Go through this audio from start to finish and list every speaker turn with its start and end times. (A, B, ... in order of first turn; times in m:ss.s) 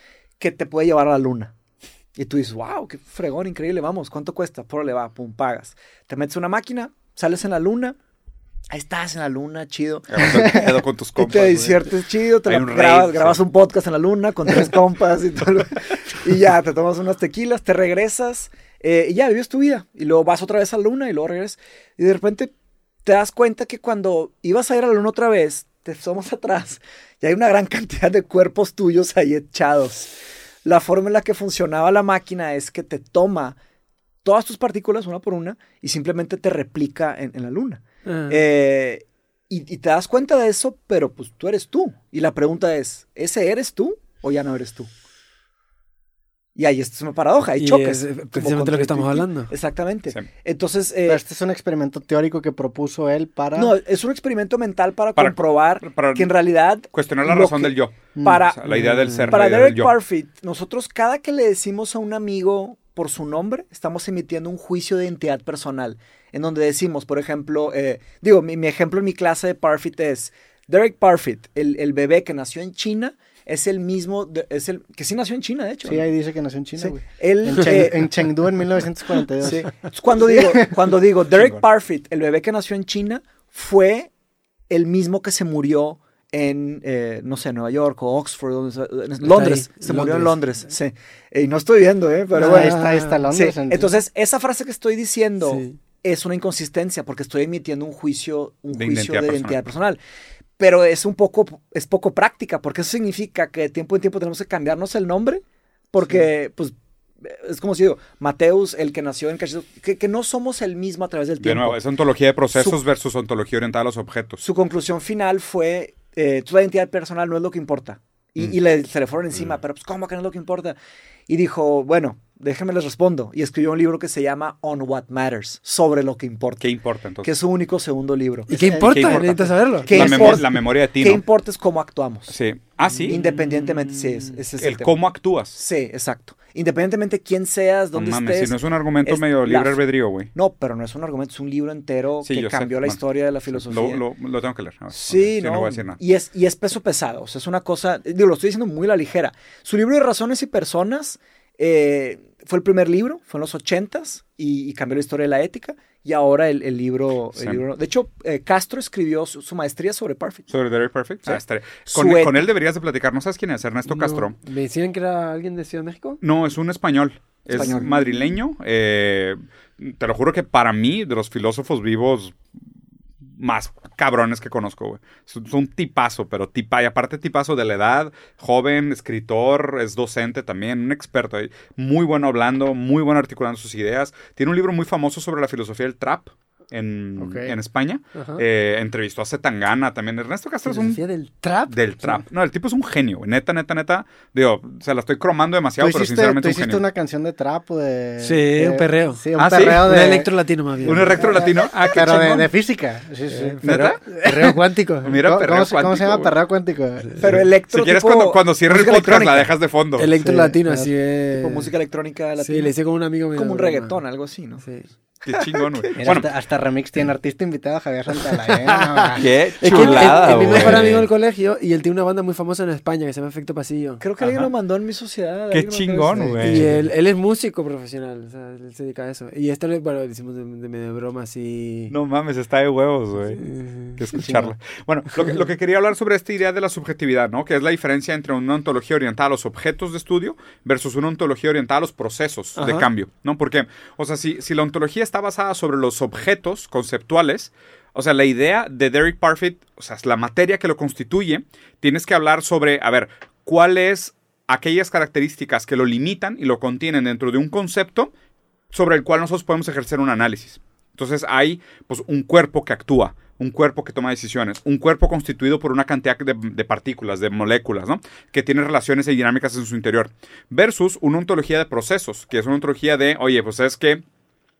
0:00.4-0:01.5 A
0:02.2-0:08.0 A
0:08.7-0:22.5 A
0:10.1-0:11.8 B
0:12.4-0:13.4 B
0:23.0-0:30.1 A
0:30.6-0:33.6 A
0:34.2-0:44.9 A
0:38.0-0:38.4 C
0:46.5-0:51.2 A
0:47.6-0:49.5 C
0:51.0-0:53.7 D
0:53.5-0:58.6 A
0:55.1-0:56.3 B
0:56.9-0:59.9 B
0:58.2-0:58.4 D
0:58.7-0:59.2 C
0:59.3-1:16.1 A
1:15.8-1:19.7 D
1:16.8-1:18.2 A
1:19.4-1:24.1 A
1:20.3-1:20.6 D
1:24.7-1:40.0 A
1:29.2-1:30.4 C
1:32.3-1:33.9 D
1:32.4-1:33.2 C
1:35.4-1:35.8 C
1:38.7-1:39.6 B
1:40.6-1:51.8 A
1:51.4-1:54.4 B
1:54.4-2:00.8 A
2:01.3-2:08.5 A
2:06.6-2:07.3 B
2:08.5-2:09.5 D
2:08.5-2:10.4 C
2:08.6-2:11.2 B
2:09.8-2:12.3 A
2:12.3-2:13.2 B
2:13.0-2:19.8 A
2:14.6-2:15.6 B
2:17.9-2:20.3 B
2:20.3-2:24.0 A
2:22.2-2:26.0 B
2:24.9-2:40.5 A
2:40.5-2:44.3 B
2:41.2-2:42.5 A
2:43.8-2:46.2 C
2:46.2-2:52.3 B
2:47.5-2:48.0 A
2:53.4-3:11.0 B
3:07.2-3:07.5 D
3:08.1-3:08.4 C
3:10.6-3:12.2 C
3:11.7-3:16.8 B
3:15.8-3:20.3 D
3:18.2-3:21.4 C
3:19.4-3:20.0 B
3:20.8-3:22.5 B
3:20.8-3:24.6 D
3:23.3-3:25.2 C
3:23.6-3:26.3 B
3:25.2-3:27.1 D
3:27.2-3:29.5 A
3:27.2-3:30.1 B
3:30.0-3:31.7 C
3:30.2-3:30.9 D
3:31.3-3:32.7 A
3:32.4-3:34.0 C
3:33.3-3:34.6 A
3:34.6-3:34.9 C
3:35.2-3:36.3 B
3:35.4-3:36.0 A
3:36.0-3:40.8 D
3:38.6-3:44.0 C
3:39.1-3:41.1 B
3:39.7-3:40.2 A
3:44.0-3:46.6 A
3:44.2-3:44.5 B
3:45.5-3:46.8 B
3:46.4-3:51.9 C
3:51.9-4:18.1 B
3:53.2-3:54.0 C
3:54.2-3:54.5 D
4:02.6-4:02.9 C
4:18.7-4:34.0 B